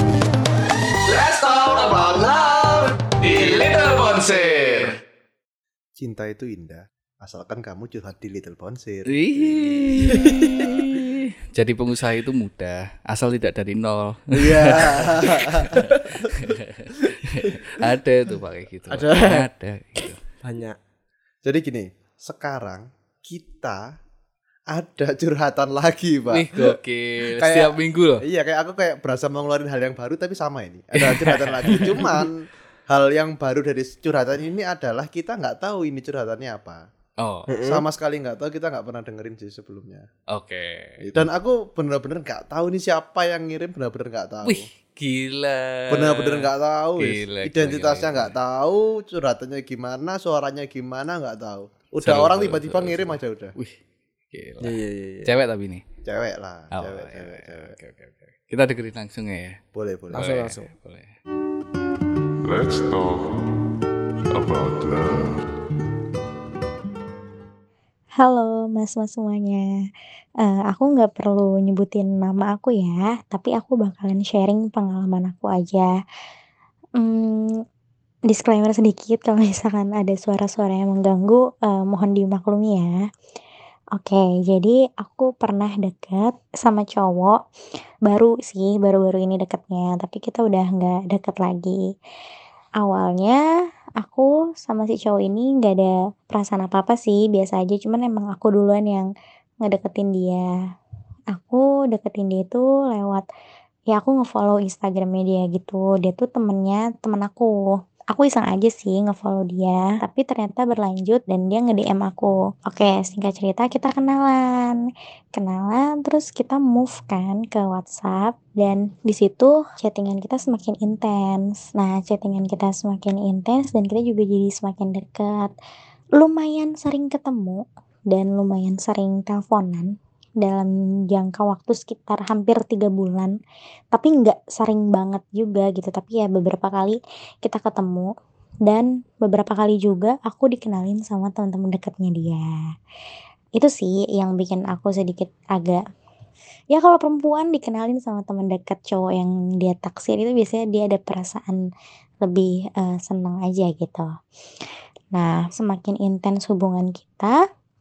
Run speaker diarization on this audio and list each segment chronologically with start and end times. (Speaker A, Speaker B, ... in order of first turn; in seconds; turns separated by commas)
Speaker A: 1.1-5.0, Speaker B: 6.0-11.0, Speaker A: 9.1-20.2, Speaker C: 10.1-10.7, Speaker B: 14.3-16.3, Speaker C: 15.8-16.3, Speaker C: 17.4-17.9, Speaker C: 18.9-19.5, Speaker C: 20.4-20.8, Speaker B: 21.4-23.8, Speaker B: 24.7-26.8, Speaker A: 26.3-28.2, Speaker B: 27.4-36.8, Speaker A: 31.0-32.2, Speaker A: 37.2-37.5, Speaker C: 37.5-37.8, Speaker B: 37.6-40.1, Speaker A: 40.3-41.0, Speaker B: 41.0-44.6, Speaker A: 44.5-48.3, Speaker B: 45.9-53.5, Speaker A: 52.0-53.8, Speaker A: 54.3-55.8, Speaker C: 54.6-55.3, Speaker B: 56.0-57.8, Speaker A: 56.7-59.6, Speaker B: 59.7-60.3, Speaker C: 60.1-60.7, Speaker A: 60.1-61.1, Speaker D: 62.4-63.3, Speaker D: 64.3-65.4, Speaker E: 68.2-69.7, Speaker E: 70.4-75.9, Speaker E: 77.0-77.6, Speaker E: 78.3-82.9, Speaker E: 84.0-87.4, Speaker E: 88.1-91.8, Speaker E: 92.8-93.4, Speaker E: 94.0-99.1, Speaker E: 99.6-100.5, Speaker E: 101.3-103.2, Speaker E: 103.9-107.6, Speaker E: 108.1-114.8, Speaker E: 115.3-125.5, Speaker E: 126.2-129.9, Speaker E: 130.4-133.3, Speaker E: 133.9-138.1, Speaker E: 138.7-142.4, Speaker E: 143.6-145.8, Speaker E: 146.7-151.6, Speaker E: 152.2-154.1, Speaker E: 155.2-157.3